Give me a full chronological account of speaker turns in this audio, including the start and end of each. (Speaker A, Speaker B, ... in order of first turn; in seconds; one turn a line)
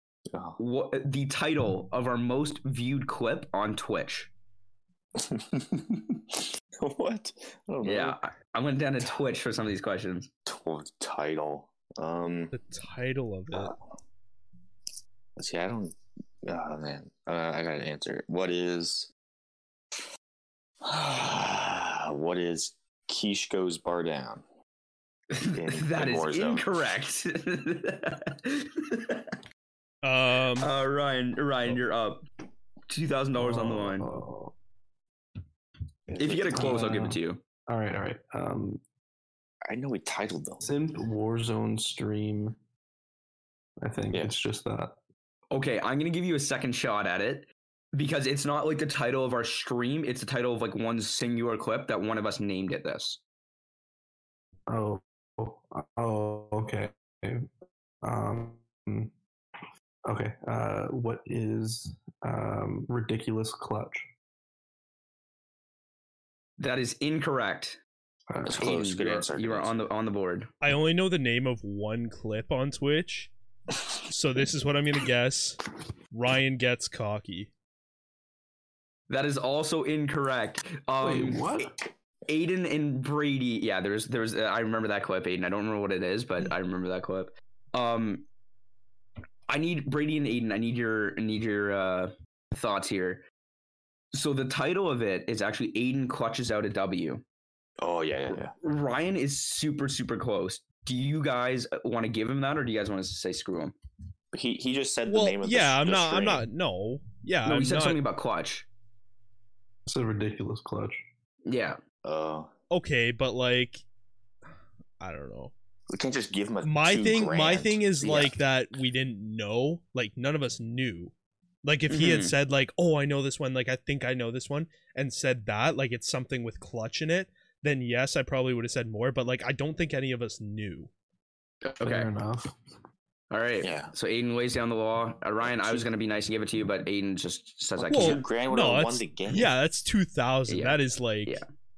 Speaker A: 0.3-0.6
Speaker B: 0.6-4.3
Speaker A: 5.2-8.2
Speaker B: 7.8-10.3
Speaker A: 10.5-12.5
Speaker C: 12.5-13.7
Speaker A: 13.5-13.8
Speaker A: 15.4-19.1
Speaker A: 20.8-24.4
Speaker B: 25.3-29.3
Speaker A: 25.5-26.6
Speaker C: 30.0-30.7
Speaker B: 30.6-32.2
Speaker B: 32.9-34.1
Speaker D: 33.3-34.5
Speaker A: 36.1-36.8
Speaker B: 36.2-37.4
Speaker D: 36.5-38.8
Speaker A: 39.7-40.7
Speaker D: 40.6-42.6
Speaker D: 43.8-44.9
Speaker B: 45.5-53.2
Speaker D: 54.7-57.5
Speaker D: 58.0-59.1
Speaker D: 60.0-64.1
Speaker B: 66.6-67.8
Speaker D: 68.3-68.7
Speaker A: 68.5-69.9
Speaker B: 68.6-70.5
Speaker C: 70.6-73.3
Speaker C: 74.0-77.5
Speaker B: 79.1-81.7
Speaker D: 81.0-81.8
Speaker B: 82.3-88.2
Speaker B: 89.5-93.2
Speaker B: 94.1-97.2
Speaker A: 97.8-98.5
Speaker B: 98.3-103.7
Speaker A: 104.3-106.4
Speaker C: 105.1-108.0
Speaker B: 107.5-108.7
Speaker D: 109.8-111.0
Speaker B: 111.5-111.8
Speaker A: 112.0-112.5
Speaker C: 112.7-113.8
Speaker C: 115.0-115.5
Speaker A: 115.9-118.3
Speaker C: 116.6-121.1
Speaker C: 121.6-130.9
Speaker B: 121.9-122.3
Speaker B: 131.6-132.1
Speaker D: 131.8-132.5
Speaker B: 133.3-138.2
Speaker A: 133.6-133.9
Speaker A: 135.4-135.8
Speaker A: 137.8-139.5
Speaker C: 137.9-141.4
Speaker B: 140.5-141.5